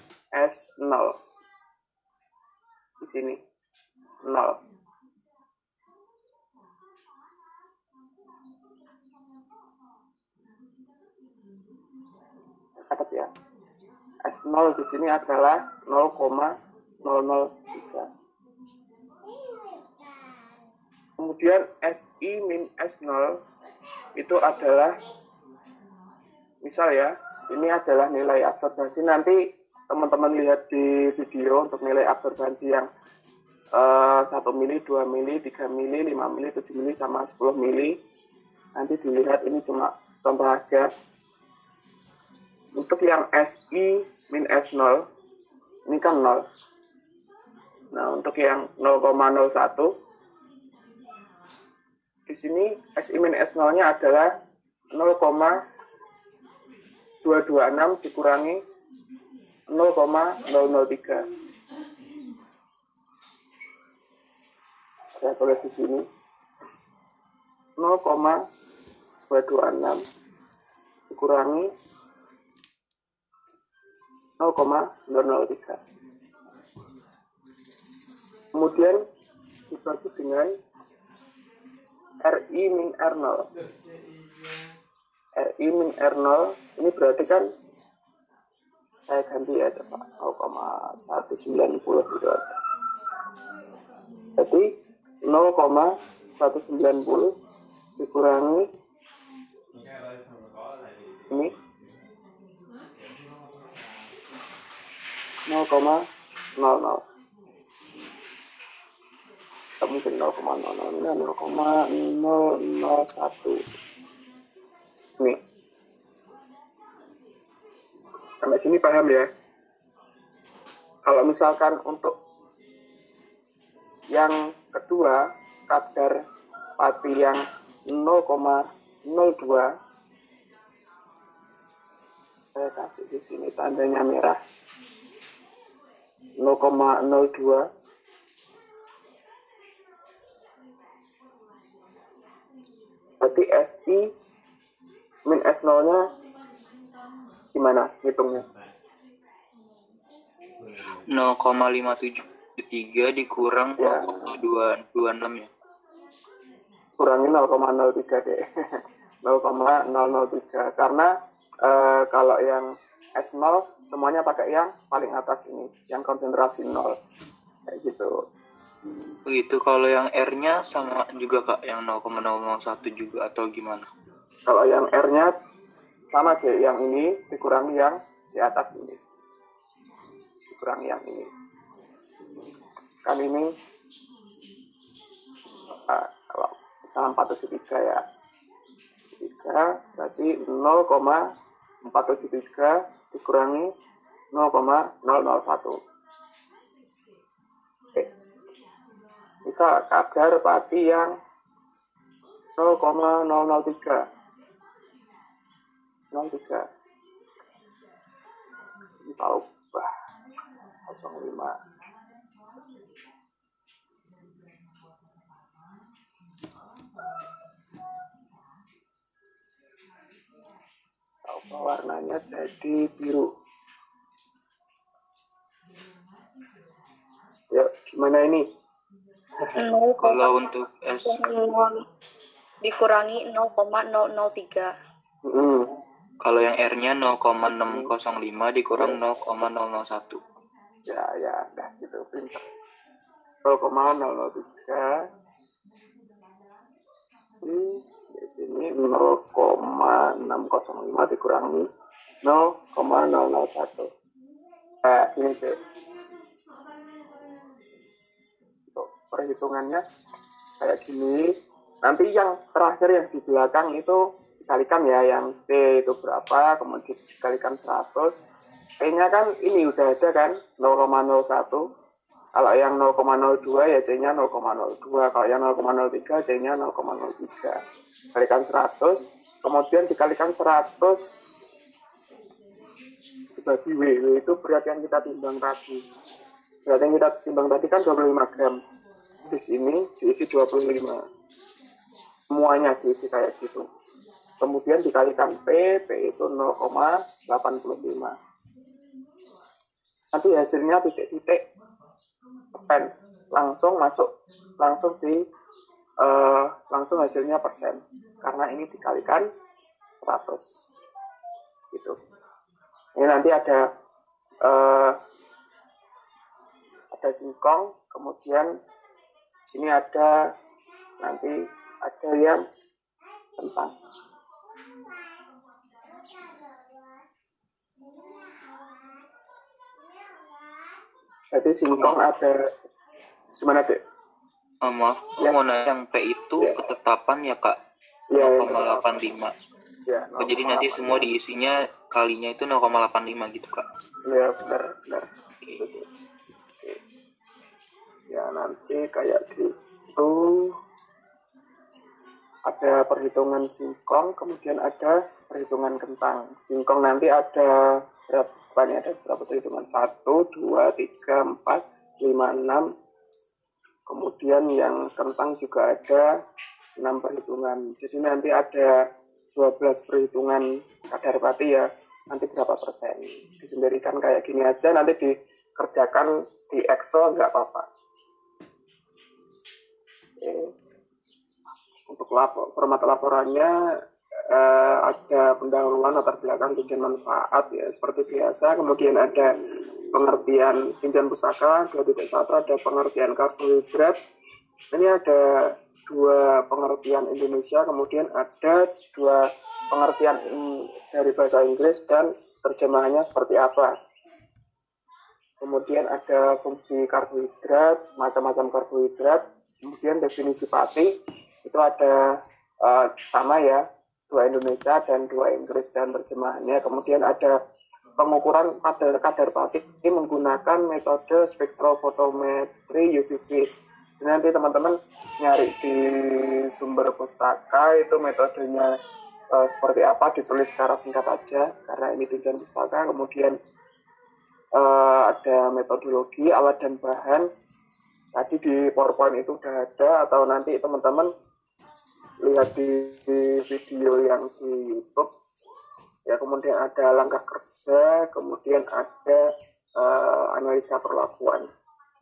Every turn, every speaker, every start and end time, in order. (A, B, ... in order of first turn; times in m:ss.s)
0:00.3-0:01.2 A
0:03.0-0:03.4 A
0:04.2-0:04.6 A
0:12.8-0:13.3 A
0:14.2-0:18.1 A
0:21.2-0:23.4 A
0:24.2-0:25.0 A
0:26.6-0:32.9 A
0:33.7-0:38.0 A
0:38.8-0:40.9 A
0:42.8-0:45.1 A
0:45.9-0:46.4 A
0:47.9-0:49.9 A
0:52.3-0:54.3 A
0:54.9-0:55.6 A
0:57.2-0:58.6 A
0:59.7-1:01.3 A
1:05.2-1:06.1 A
1:07.8-1:08.4 A
1:09.3-1:10.0 A
1:11.1-1:11.7 A
1:14.4-1:15.8 A
1:18.5-1:19.0 A
1:19.7-1:20.6 A
1:22.2-1:23.5 A
1:25.4-1:27.5 A
1:29.1-1:32.5 A
1:34.4-1:34.7 A
1:35.2-1:37.3 A
1:38.0-1:38.7 A
1:45.5-1:46.0 A
1:46.6-1:47.0 A
1:49.8-1:53.6 A
1:58.4-1:59.3 A
2:01.0-2:02.2 A
2:04.1-2:06.2 A
2:06.8-2:09.7 A
2:12.6-2:14.4 A
2:16.4-2:17.7 A
2:23.2-2:24.1 A
2:25.3-2:26.1 A
2:27.5-2:28.5 A
2:31.1-2:35.5 B
2:33.8-2:34.4 A
2:37.0-2:38.4 A
2:39.2-2:47.0 A
2:47.7-2:48.2 A
2:49.2-2:53.8 B
2:54.5-2:55.4 A
2:56.1-2:59.0 A
3:00.5-3:01.3 A
3:03.0-3:03.5 A
3:05.7-3:08.0 A
3:09.2-3:11.2 A
3:11.8-3:13.7 A
3:14.3-3:15.8 A
3:19.4-3:21.2 A
3:22.6-3:24.0 A
3:26.1-3:26.7 A
3:29.1-3:29.9 A
3:30.9-3:31.6 A
3:41.3-3:43.3 A
3:47.5-3:48.5 A
3:49.6-3:50.4 C
3:50.0-3:51.2 B
3:51.1-3:51.8 C
3:52.6-3:54.7 C
3:55.2-3:55.7 A
3:56.2-4:00.2 B
3:57.6-3:57.9 A
4:00.9-4:02.4 A
4:03.4-4:05.1 A
4:07.4-4:11.7 A
4:12.2-4:13.9 A
4:14.8-4:15.6 A
4:18.7-4:19.8 A
4:20.6-4:28.2 A
4:28.8-4:31.7 A
4:32.4-4:37.6 A
4:38.1-4:41.2 A
4:43.4-4:45.8 A
4:46.7-4:48.6 A
4:49.3-4:51.0 A
4:52.3-4:53.6 A
4:54.4-4:58.2 A
5:00.1-5:01.4 A
5:02.6-5:05.2 A
5:06.0-5:09.3 A
5:10.0-5:10.6 A
5:13.0-5:13.7 A
5:14.4-5:15.0 A
5:16.9-5:18.5 A
5:19.5-5:20.2 A
5:21.0-5:22.4 A
5:23.4-5:23.7 A
5:31.3-5:32.5 A
5:31.7-5:32.0 B
5:33.4-5:33.8 A
5:34.6-5:37.6 B
5:38.1-5:39.0 A
5:38.2-5:39.3 B
5:39.9-5:41.1 A
5:40.2-5:43.6 B
5:44.0-5:45.9 A
5:48.1-5:50.5 A
5:52.5-6:02.7 A
6:03.9-6:06.1 A
6:06.8-6:08.8 A
6:09.4-6:17.7 A
6:20.2-6:20.5 A
6:21.9-6:23.5 A
6:24.3-6:29.4 A
6:29.9-6:34.0 A
6:34.7-6:43.7 A
6:45.4-6:50.9 A
6:51.4-6:57.4 A
6:58.0-7:08.8 A
7:09.3-7:13.4 A
7:14.6-7:17.3 A
7:18.2-7:21.1 A
7:22.2-7:25.1 A
7:26.1-7:29.2 A
7:29.8-7:31.5 A